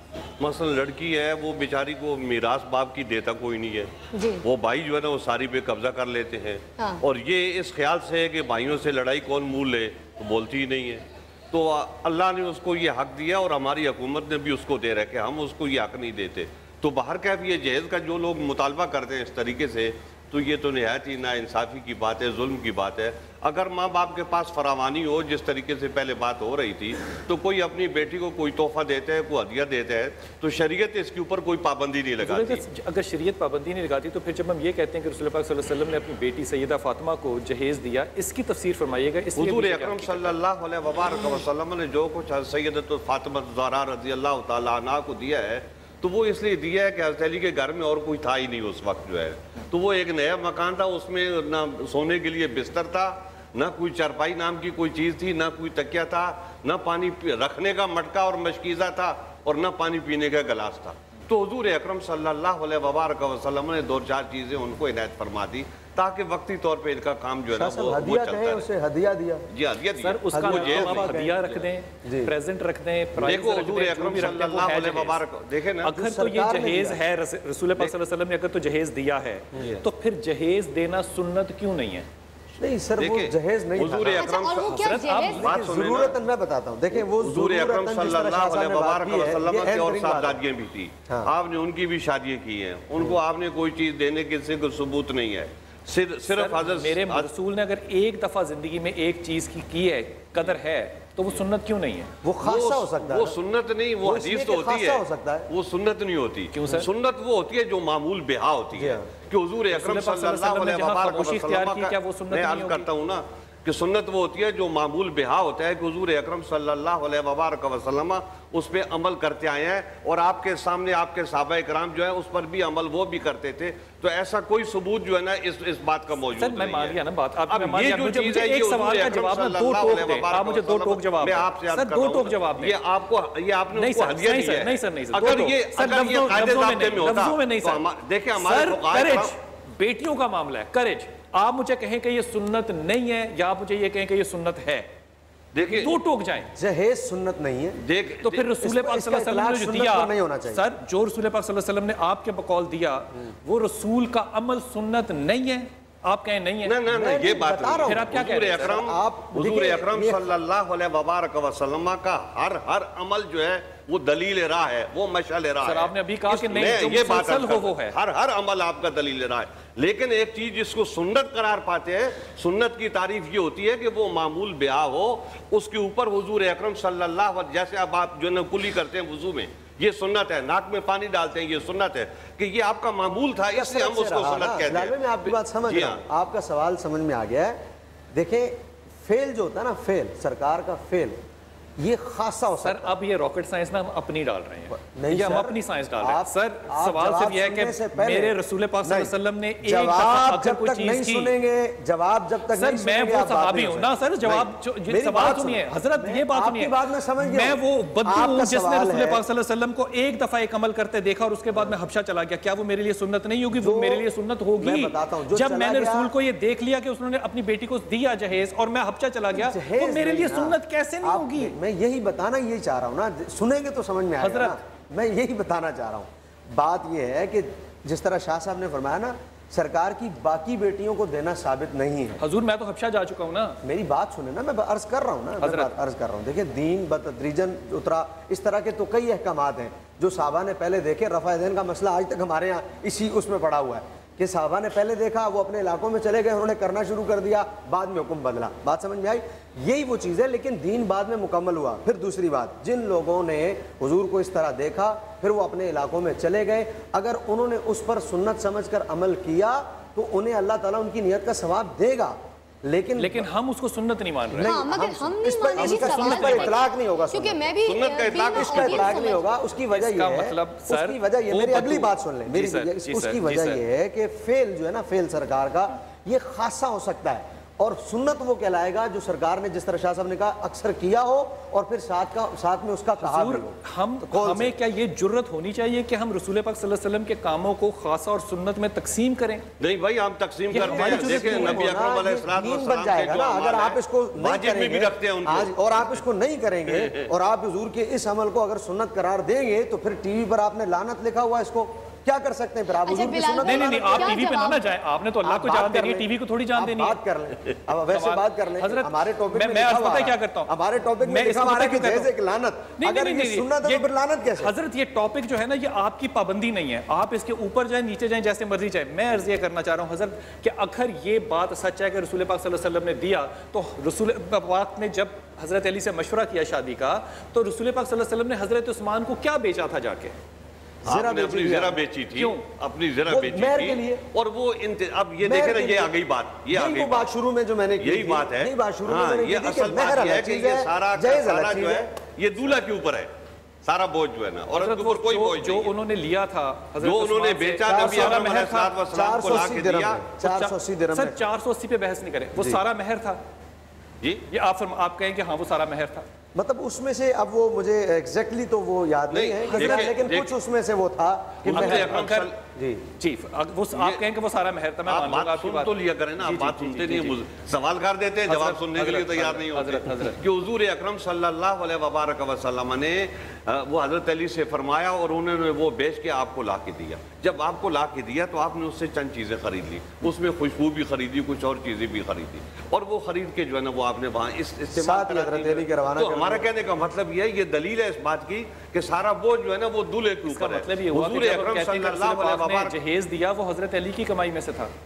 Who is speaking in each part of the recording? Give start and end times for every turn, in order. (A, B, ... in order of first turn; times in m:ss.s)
0:00.4-0:03.9 A
0:04.1-0:04.4 B
0:04.4-0:32.6 A
0:32.2-0:40.4 C
0:39.4-1:08.7 A
1:07.5-1:09.4 D
1:09.5-1:11.6 A
1:10.0-1:15.2 C
1:10.3-1:12.3 D
1:13.2-1:15.9 A
1:15.8-1:22.1 C
1:15.9-1:17.0 D
1:22.6-1:24.3 D
1:23.0-1:26.2 A
1:24.2-1:25.4 B
1:24.5-1:25.5 C
1:25.4-1:30.4 D
1:26.9-1:37.3 A
1:36.3-1:42.1 C
1:42.2-1:43.4 D
1:42.4-2:07.0 A
1:44.0-1:45.5 D
1:46.5-1:46.9 C
1:48.8-1:49.1 D
1:49.7-1:52.9 C
2:06.4-2:12.8 C
2:07.5-2:19.3 A
2:13.8-2:17.8 C
2:18.4-2:24.9 C
2:25.5-2:25.9 A
2:25.8-2:26.5 C
2:26.6-2:27.8 D
2:27.8-2:28.4 A
2:28.2-2:36.8 C
2:28.6-2:30.6 D
2:36.6-3:06.0 A
2:36.9-2:40.3 D
2:37.8-2:38.8 C
2:45.6-2:48.0 C
3:03.5-3:07.6 D
3:08.1-3:11.2 D
3:11.8-3:12.9 D
3:12.6-3:21.3 C
3:14.7-3:19.1 D
3:19.6-3:29.2 D
3:22.5-3:41.5 C
3:33.6-3:34.0 D
3:34.6-3:36.1 D
3:39.3-3:52.2 D
3:44.2-3:44.6 C
3:52.2-3:53.6 C
3:53.6-4:23.2 D
3:55.4-3:55.7 C
4:23.0-4:24.6 C
4:24.3-4:27.4 D
4:24.4-4:26.5 B
4:25.6-4:26.6 C
4:27.1-4:29.2 B
4:27.7-4:29.0 A
4:28.3-4:43.6 D
4:29.7-4:33.6 C
4:43.0-4:49.4 C
4:44.1-4:44.5 D
4:49.6-4:55.5 A
4:50.5-4:51.7 C
4:50.5-5:04.2 D
5:02.9-5:04.6 B
5:03.4-5:07.0 C
5:05.2-5:14.5 D
5:07.9-5:10.5 C
5:11.0-5:12.1 C
5:12.8-5:30.2 C
5:30.8-5:31.8 D
5:30.8-5:37.1 A
5:32.2-5:32.4 C
5:33.1-5:34.0 D
5:35.2-5:36.0 D
5:36.5-5:41.9 D
5:37.8-5:43.1 A
5:43.6-5:45.7 A
5:44.5-5:49.6 C
5:46.8-5:50.0 A
5:47.7-5:51.2 D
5:50.2-5:53.2 C
5:54.3-5:56.0 C
5:56.4-6:02.8 D
5:59.1-6:00.3 A
5:59.5-5:59.9 C
6:01.5-6:02.3 A
6:01.5-6:02.3 C
6:03.0-6:07.2 C
6:03.7-6:04.0 A
6:04.9-6:32.8 A
6:08.3-6:10.2 C
6:24.8-6:26.5 D
6:30.3-6:34.7 C